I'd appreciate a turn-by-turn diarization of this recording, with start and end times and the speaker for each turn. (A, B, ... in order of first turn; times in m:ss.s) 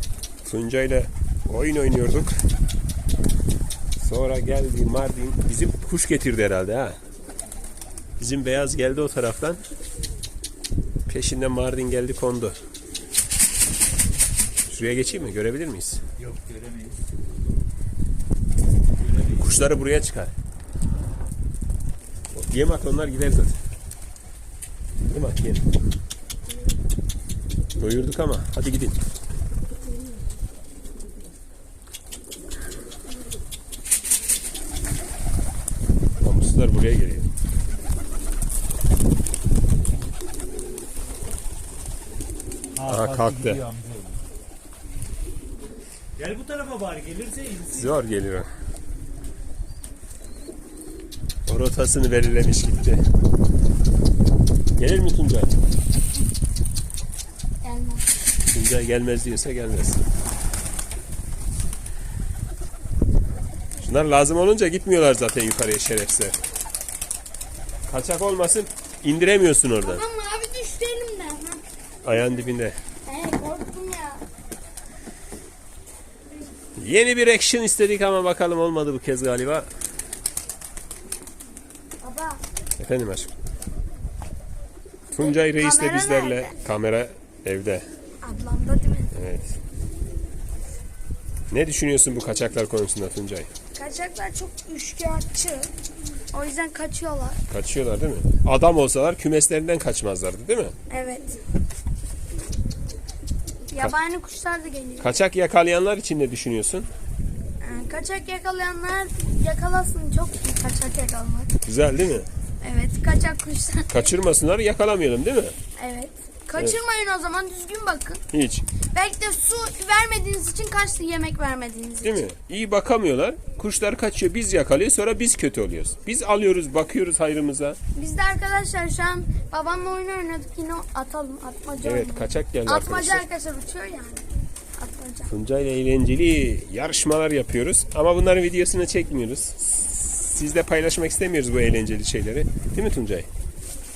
0:00.4-0:02.4 A
0:04.0-0:07.0 A
0:08.2-0:09.6 A
0:11.1-0:12.6 A
0:14.7-0:16.0 A
0:16.5-0:16.9 B
0:19.2-0:20.3 A
0:22.3-0:23.6 A
0:25.1-0:25.6 A
0:27.7-0:29.0 A
0:36.2-0:37.3 A
0:42.8-0:43.7 A
0:43.2-0:44.1 B
0:46.2-0:47.6 B
0:47.6-0:48.5 A
0:51.5-0:53.0 A
0:54.8-0:55.5 A
0:57.6-0:58.1 C
0:58.5-1:00.0 A
1:03.8-1:06.4 A
1:07.9-1:10.0 A
1:09.8-1:11.6 C
1:12.0-1:12.8 A
1:13.0-1:14.2 C
1:16.8-1:19.7 A
1:22.0-1:22.4 C
1:22.8-1:23.3 A
1:25.1-1:27.9 A
1:25.2-1:26.5 C
1:28.2-1:29.1 C
1:29.1-1:29.6 A
1:31.5-1:33.5 A
1:33.7-1:35.7 C
1:36.3-1:37.4 C
1:37.5-1:40.7 A
1:40.9-1:41.4 C
1:43.7-1:45.1 C
1:45.0-1:46.9 A
1:47.6-1:51.6 C
1:51.6-1:52.3 A
1:52.6-1:54.1 C
1:53.9-1:55.5 A
1:55.8-1:58.2 C
1:58.3-1:58.6 A
1:58.9-2:02.2 C
2:02.0-2:07.8 A
2:07.9-2:15.3 C
2:11.8-2:13.2 A
2:15.3-2:23.3 A